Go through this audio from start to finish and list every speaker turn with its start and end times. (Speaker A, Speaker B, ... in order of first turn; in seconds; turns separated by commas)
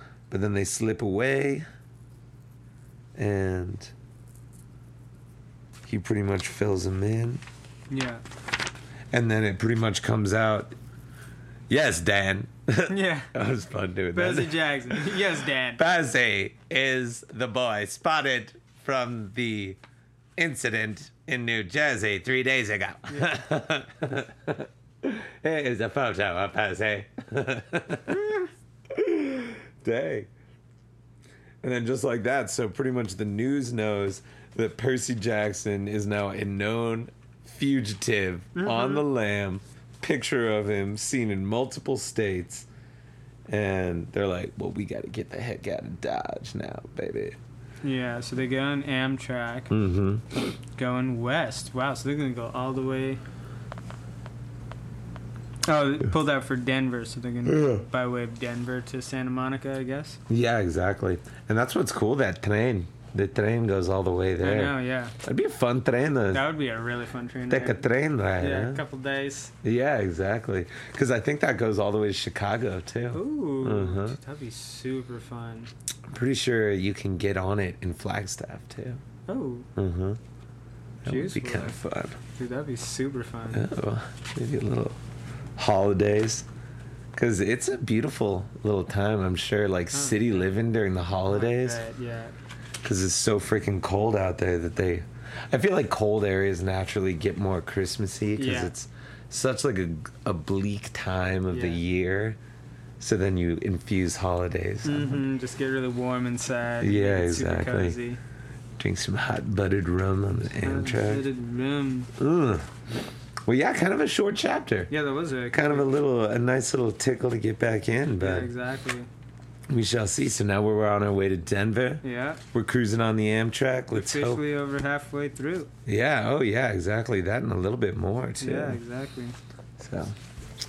Speaker A: 0.3-1.6, Speaker A: 3.1-3.9, Speaker A: 5.9-7.4, Speaker B: 7.9-8.2, Speaker A: 9.1-10.7, Speaker A: 11.7-19.8, Speaker B: 12.9-13.3, Speaker B: 14.1-15.8, Speaker A: 20.4-28.4, Speaker B: 23.1-23.3, Speaker A: 28.9-30.3, Speaker A: 31.6-42.7, Speaker B: 38.5-39.0, Speaker A: 43.5-47.4, Speaker B: 47.8-49.7, Speaker A: 49.7-50.2, Speaker B: 50.8-53.2, Speaker B: 55.6-60.2, Speaker A: 57.5-57.8, Speaker A: 60.3-66.5, Speaker B: 64.4-65.1, Speaker B: 66.3-69.5, Speaker A: 67.5-68.8, Speaker A: 69.6-74.2, Speaker B: 73.1-75.7, Speaker A: 76.1-79.0, Speaker B: 79.3-79.7, Speaker A: 79.8-80.2, Speaker A: 81.0-82.2, Speaker B: 81.0-81.8, Speaker B: 82.3-83.7, Speaker A: 83.5-85.0, Speaker A: 85.6-86.5, Speaker A: 87.1-91.8, Speaker B: 89.9-90.4, Speaker B: 91.3-92.3, Speaker A: 92.8-102.4, Speaker B: 98.3-98.7, Speaker B: 101.5-101.8, Speaker A: 103.0-105.3, Speaker B: 104.8-108.2, Speaker A: 106.8-108.0, Speaker A: 108.8-111.3, Speaker B: 110.6-112.1, Speaker A: 112.2-112.7, Speaker A: 113.5-114.9, Speaker B: 114.9-116.0, Speaker A: 115.5-118.5, Speaker B: 118.2-119.1, Speaker A: 119.7-124.4, Speaker B: 122.0-122.4, Speaker B: 123.9-125.7, Speaker A: 125.8-128.8, Speaker B: 128.4-129.3, Speaker A: 129.8-130.2